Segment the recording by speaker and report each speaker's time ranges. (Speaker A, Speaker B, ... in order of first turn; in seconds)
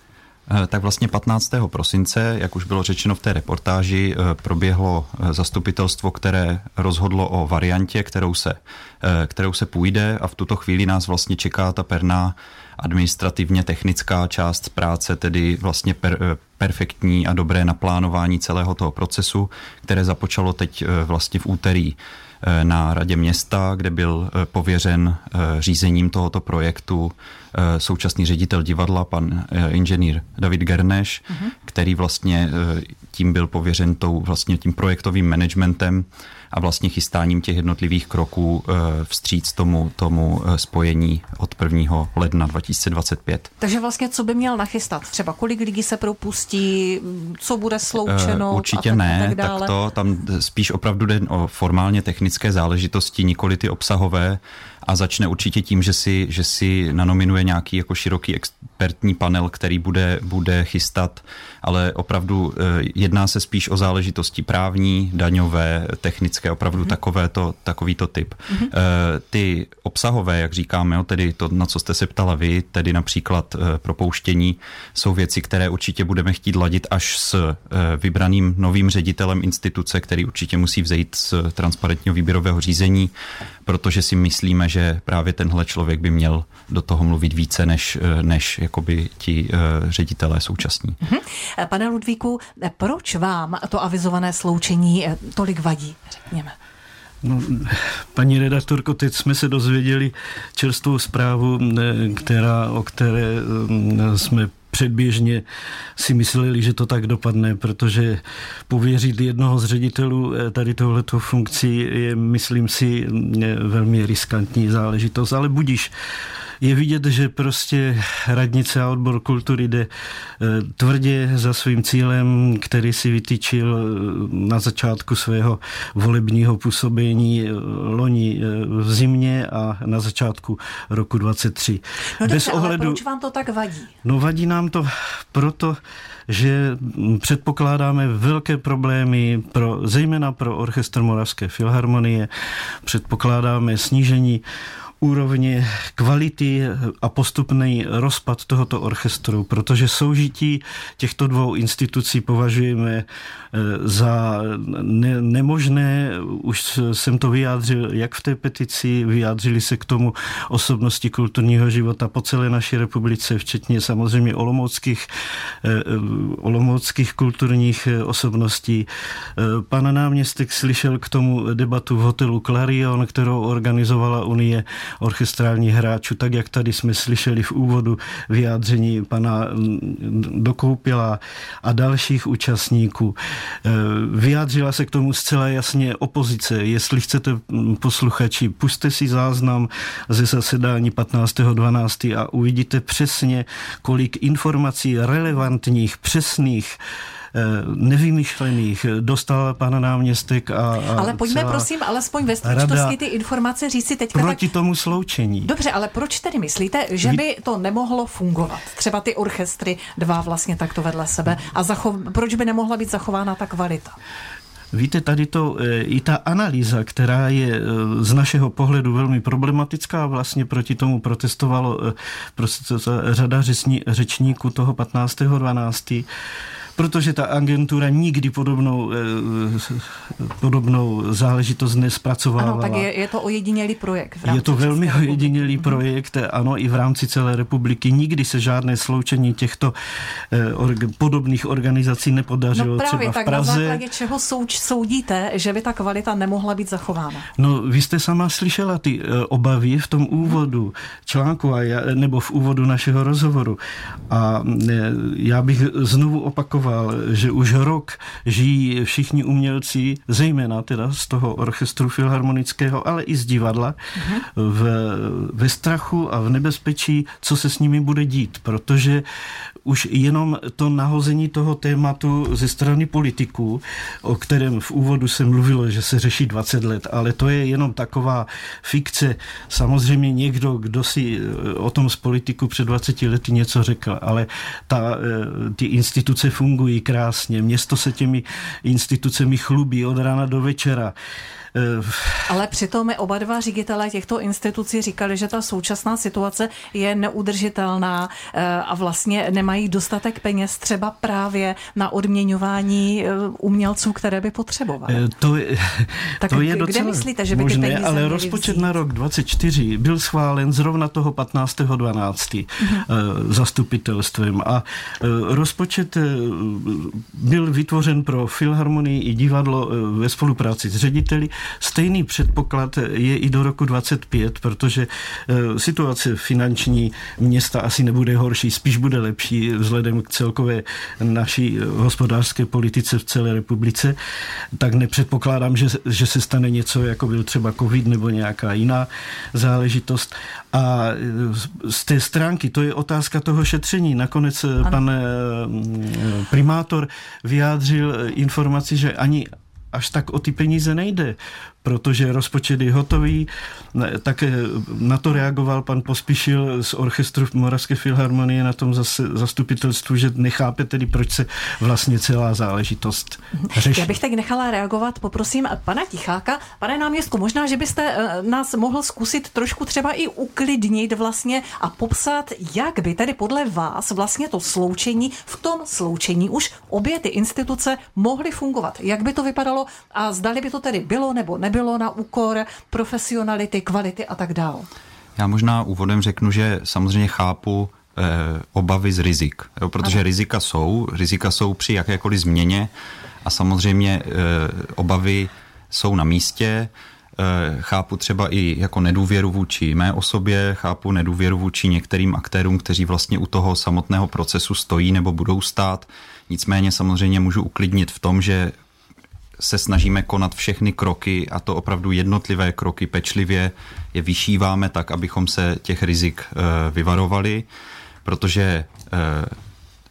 Speaker A: 0.5-43.5, 48.0-83.1, 83.7-91.0, 385.2-392.7, 393.2-408.5, 409.4-417.5, 418.0-419.3
Speaker B: 43.6-49.7, 91.0-96.5, 132.2-133.9, 200.9-204.4, 205.4-213.9, 232.4-235.8, 242.5-247.3, 264.0-264.2, 292.3-305.0, 306.2-308.7, 363.5-384.7
Speaker C: 97.2-105.4, 106.0-115.9, 116.6-133.0, 134.0-142.3, 142.8-144.4, 145.0-165.1, 165.6-196.8, 197.3-201.7, 202.4-203.0, 204.1-205.5, 214.7-226.1, 226.8-232.9, 234.2-239.7, 240.3-243.8, 247.4-269.0, 269.6-290.9, 291.5-292.3, 304.9-333.9, 334.6-363.9